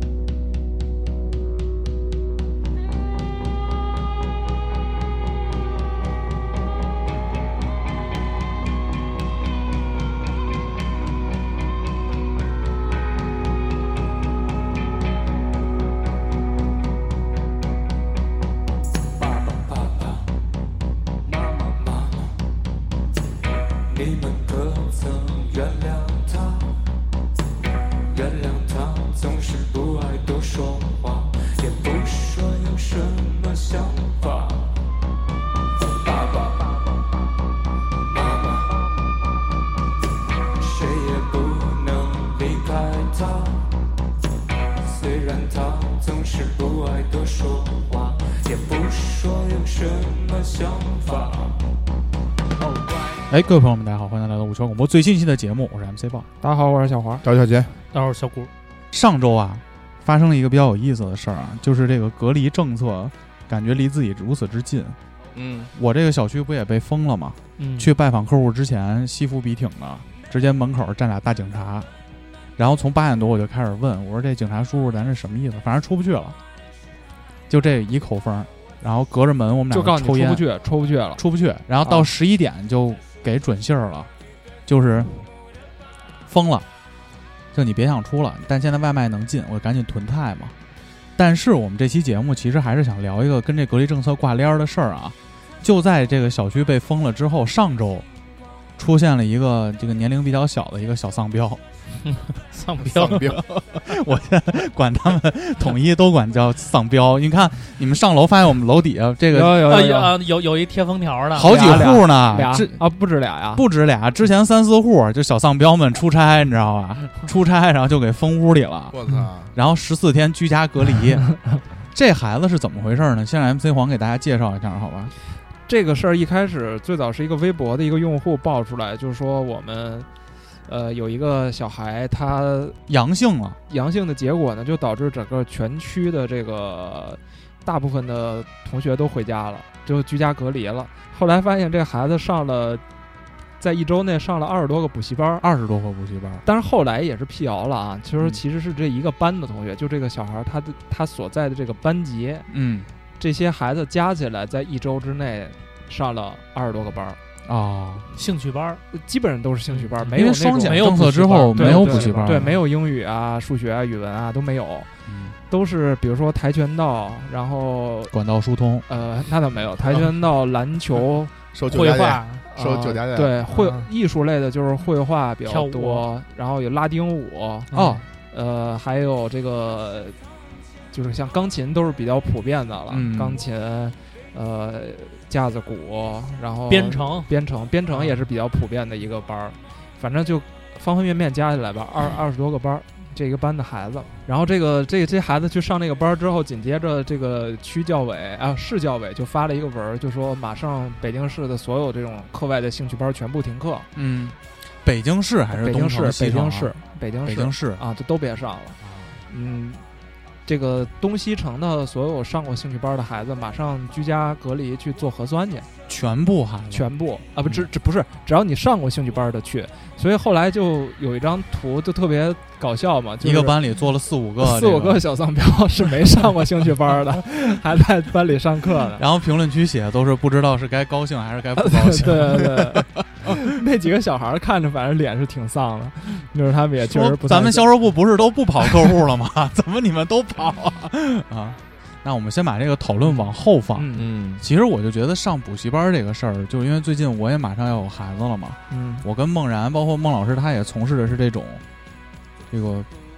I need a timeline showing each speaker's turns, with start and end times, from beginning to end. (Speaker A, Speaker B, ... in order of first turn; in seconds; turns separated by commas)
Speaker A: 19.2-20.3, Speaker A: 21.2-22.4, Speaker A: 23.9-26.8, Speaker A: 28.1-34.7, Speaker A: 35.8-36.8, Speaker A: 38.1-38.9, Speaker A: 40.6-43.7, Speaker A: 44.8-51.6, Speaker B: 53.3-56.3, Speaker C: 56.4-57.2, Speaker D: 57.2-57.7, Speaker E: 57.9-58.5, Speaker B: 58.9-65.0, Speaker D: 65.3-65.7, Speaker B: 65.7-71.9, Speaker E: 67.6-67.9, Speaker B: 72.6-76.4, Speaker B: 77.5-80.4, Speaker C: 79.7-81.2, Speaker B: 81.2-84.1, Speaker C: 81.8-82.1, Speaker B: 84.7-85.2, Speaker B: 86.3-86.7, Speaker B: 87.5-90.5, Speaker B: 91.2-98.0, Speaker B: 98.8-101.6, Speaker E: 102.5-103.3, Speaker D: 102.8-103.4, Speaker B: 103.0-109.8, Speaker C: 109.3-110.2, Speaker E: 109.5-111.9, Speaker B: 111.3-112.8, Speaker C: 111.4-113.6, Speaker B: 113.5-119.0, Speaker D: 118.9-119.5, Speaker B: 119.5-121.3, Speaker B: 121.9-125.1, Speaker C: 125.7-130.1, Speaker C: 130.7-132.8, Speaker B: 132.9-133.6, Speaker C: 133.7-142.8, Speaker C: 143.6-145.5, Speaker B: 145.4-146.4, Speaker C: 146.4-152.5, Speaker B: 152.5-152.9, Speaker C: 153.2-157.2, Speaker B: 157.4-158.1, Speaker E: 158.1-158.8, Speaker C: 158.9-164.9, Speaker B: 160.0-162.6, Speaker E: 160.6-162.6, Speaker B: 165.1-165.3, Speaker C: 165.5-168.1, Speaker B: 168.1-168.8, Speaker C: 168.9-171.3, Speaker D: 171.5-173.4, Speaker E: 171.7-172.4, Speaker C: 172.5-177.7, Speaker E: 173.5-173.9, Speaker E: 175.4-176.1, Speaker E: 177.7-178.0, Speaker B: 177.7-178.0, Speaker C: 178.3-180.2, Speaker C: 180.9-203.9, Speaker B: 182.9-183.4, Speaker E: 186.7-187.3, Speaker B: 203.9-206.7, Speaker C: 205.5-208.8, Speaker B: 207.2-207.8, Speaker C: 209.3-209.8, Speaker C: 210.4-215.7, Speaker B: 215.9-216.9, Speaker C: 216.7-223.6, Speaker B: 223.2-225.0, Speaker C: 224.4-229.0, Speaker B: 229.0-233.4, Speaker C: 231.6-237.8, Speaker B: 236.8-251.6, Speaker C: 243.7-244.1, Speaker D: 243.9-244.4, Speaker C: 248.7-249.0, Speaker B: 252.5-252.9